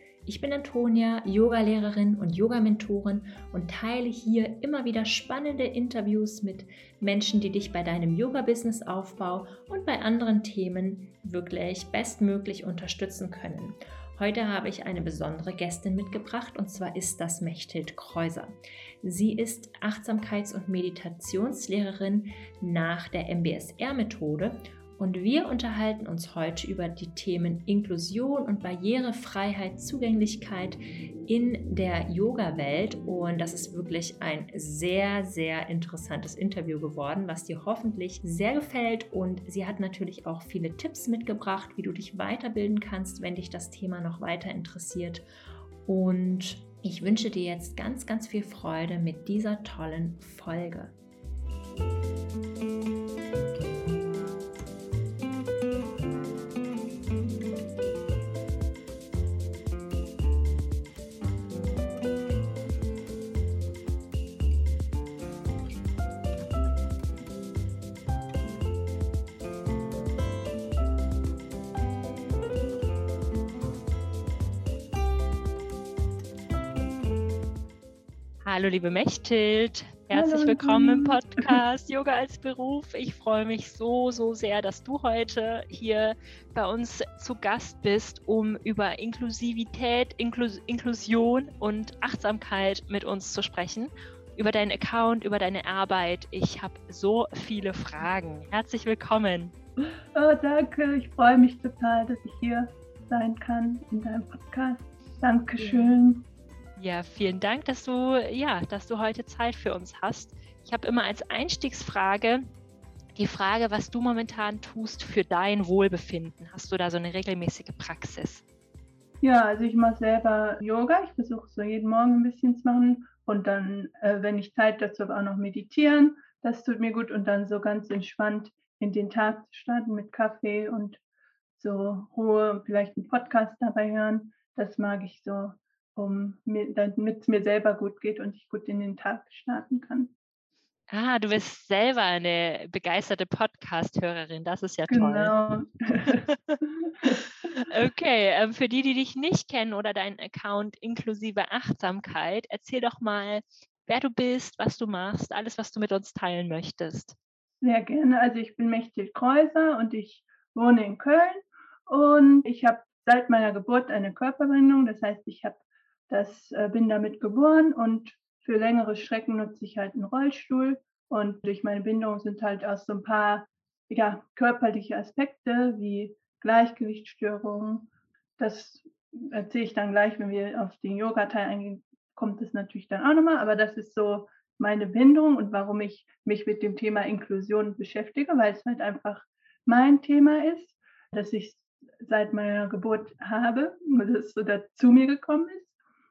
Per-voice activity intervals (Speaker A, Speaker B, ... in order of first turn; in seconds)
Speaker A: 0.3-45.2, 45.9-51.0, 78.4-99.5, 105.6-105.9, 106.8-112.4, 113.2-118.4, 140.9-145.4, 146.1-157.2
Speaker B: 80.1-81.4, 100.1-106.2, 119.2-131.0, 131.6-140.1, 144.9-147.2, 157.6-195.7